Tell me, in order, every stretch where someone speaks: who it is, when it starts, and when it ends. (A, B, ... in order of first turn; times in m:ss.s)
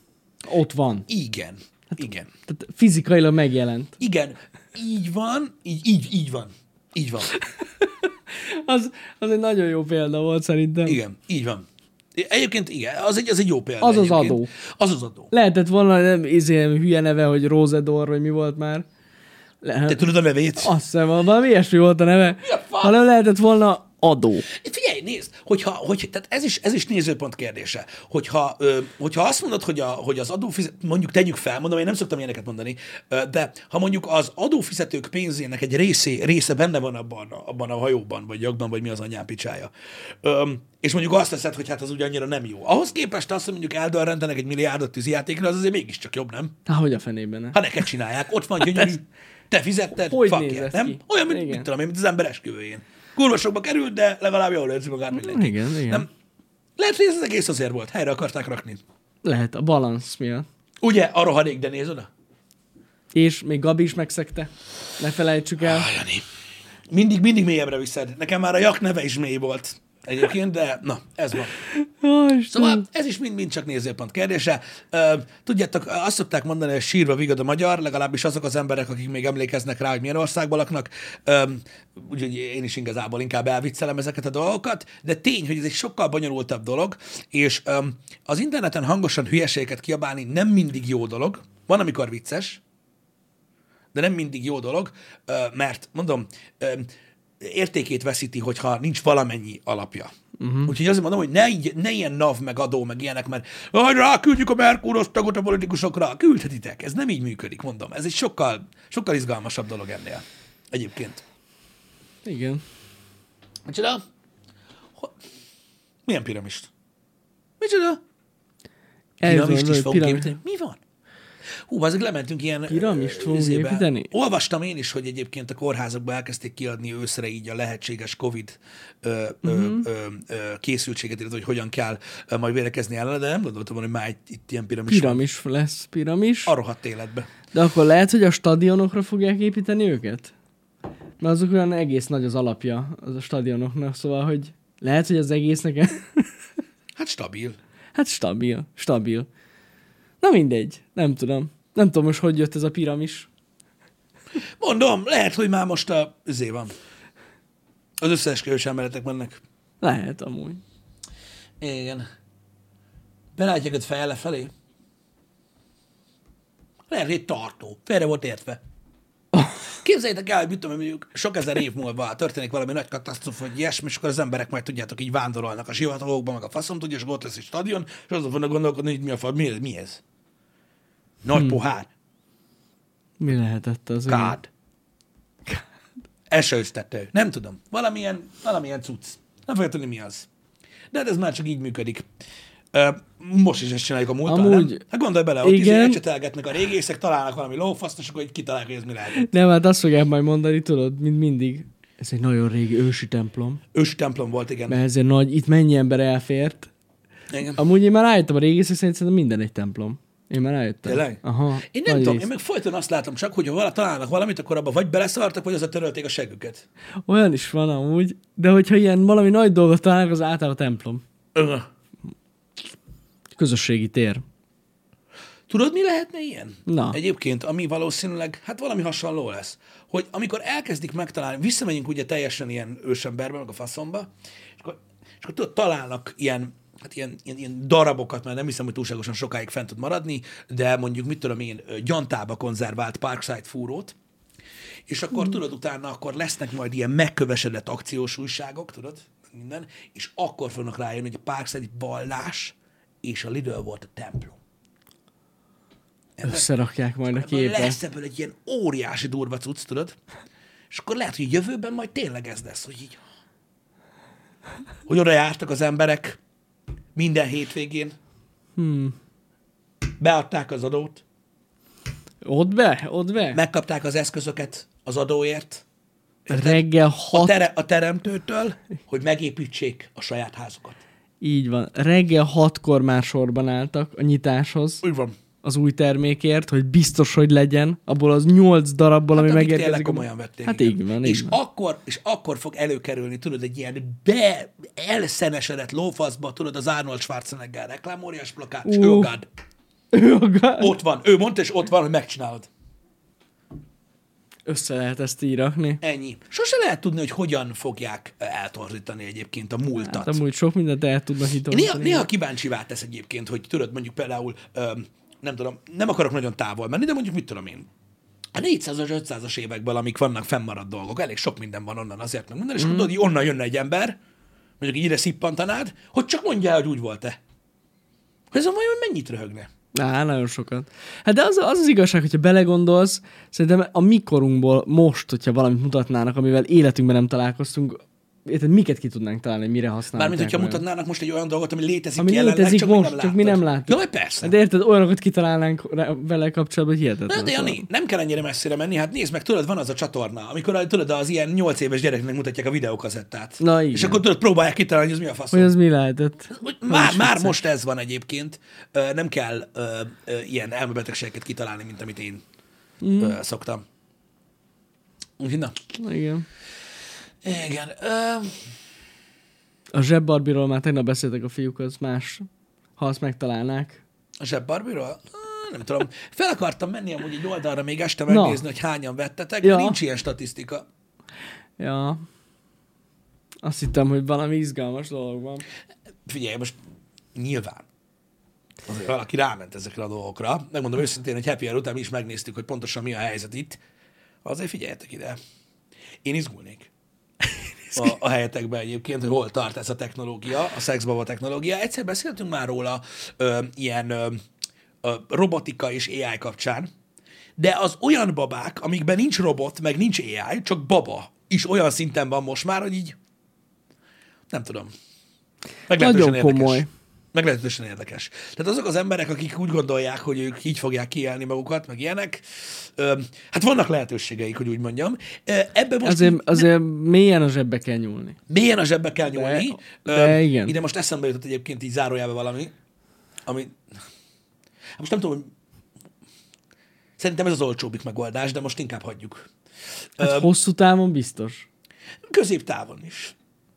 0:00.5-0:01.1 A
0:01.1-0:02.3 B
0:02.5-0:03.9 A
0:04.0-0:07.4 B
0:07.4-0:11.0 A
0:10.9-0:15.3 B
0:13.8-0:14.5 A
0:15.3-0:18.9 A
0:19.6-0:24.5 A
0:19.9-0:20.7 B
0:22.4-0:23.0 B
0:24.5-0:39.7 B
0:40.2-0:46.6 B
0:46.7-0:47.6 A
0:47.5-0:56.1 B
0:48.6-0:48.9 A
0:50.0-0:51.7 A
0:55.1-0:56.1 A
0:56.8-0:58.8 B
0:59.2-1:00.5 A
1:00.8-1:02.1 B
1:03.1-1:05.9 A
1:05.6-1:06.2 B
1:06.9-1:11.6 B
1:11.6-1:12.8 A
1:12.5-1:32.6 B
1:33.9-1:36.9 B
1:37.4-1:40.1 B
1:40.4-1:40.7 A
1:40.6-1:51.2 B
1:52.2-1:52.6 A
1:53.7-1:54.0 B
1:56.1-1:56.7 B
1:57.6-1:58.0 B
1:59.2-2:00.4 A
1:59.2-2:00.8 B
2:01.7-2:15.2 B
2:02.7-2:04.1 A
2:09.4-2:09.9 A
2:14.9-2:16.5 A
2:16.5-2:17.3 B
2:17.5-2:20.3 A
2:21.2-2:26.3 A
2:27.0-2:27.6 B
2:28.0-2:29.3 A
2:30.2-2:33.3 A
2:34.6-2:36.7 B
2:38.0-2:39.4 B
2:39.8-2:40.6 A
2:41.6-2:42.1 B
2:43.4-2:44.5 B
2:46.9-2:48.6 B
2:49.8-3:00.0 B
3:01.2-3:01.9 B
3:03.2-3:04.4 A
3:04.1-3:04.5 B
3:06.3-3:10.3 B
3:10.9-3:12.0 B
3:12.7-3:19.3 B
3:14.3-3:14.8 A
3:15.4-3:16.0 A
3:19.1-3:23.6 A
3:23.7-3:24.8 B
3:24.7-3:26.7 A
3:27.3-3:27.6 B
3:27.6-3:32.3 A
3:30.8-3:36.6 B
3:37.1-3:41.0 A
3:41.4-3:41.7 B
3:43.4-3:44.2 A
3:45.5-4:04.0 B
3:46.7-3:47.0 A
4:04.9-4:14.4 B
4:16.2-4:16.5 B
4:16.2-4:17.8 A
4:17.1-4:20.0 B
4:20.7-4:23.0 B
4:24.9-4:26.2 B
4:27.0-4:28.0 B
4:28.6-4:29.0 A
4:30.0-4:31.0 B
4:32.2-4:33.4 A
4:33.3-4:35.6 B
4:36.3-4:40.8 B
4:36.3-4:37.4 A
4:41.2-4:44.8 A
4:44.8-4:45.2 B
4:45.4-4:51.4 A
4:49.2-4:59.3 B
4:58.6-4:59.1 A
4:59.9-5:00.7 A
5:00.6-5:02.5 B
5:04.5-5:05.8 A
5:05.8-5:10.2 B
5:09.8-5:12.1 A
5:11.5-5:17.7 B
5:18.4-5:24.0 B
5:22.6-5:22.9 A
5:24.6-5:27.2 B
5:28.3-5:29.5 B
5:29.7-5:40.6 A
5:40.0-5:44.3 B
5:42.0-5:47.6 A
5:47.1-5:55.5 B
5:53.4-5:54.0 A
5:55.3-5:57.4 A
5:56.3-6:02.2 B
6:02.8-6:03.2 A
6:03.0-6:03.6 B
6:05.2-6:05.6 B
6:05.7-6:06.3 A
6:07.2-6:08.5 B
6:09.7-6:13.8 A
6:14.2-6:20.7 B
6:18.1-6:18.4 A
6:19.4-6:19.8 A
6:21.6-6:22.0 A
6:23.4-6:25.4 A
6:26.1-6:26.6 B
6:27.2-6:27.7 B
6:28.7-6:33.6 B
6:34.2-6:35.2 B
6:36.0-6:36.7 B
6:37.3-6:37.9 A
6:37.7-6:44.2 B
6:44.8-6:46.7 B
6:47.4-6:53.0 B
6:54.3-6:54.7 B
6:55.7-7:06.5 B
6:55.7-6:56.7 A
7:05.8-7:08.2 A
7:08.3-7:12.5 B
7:09.1-7:10.5 A
7:13.3-7:13.6 B
7:14.8-7:15.3 B
7:17.0-7:19.3 B
7:20.0-7:20.3 B
7:20.0-7:21.5 A
7:22.1-7:23.2 B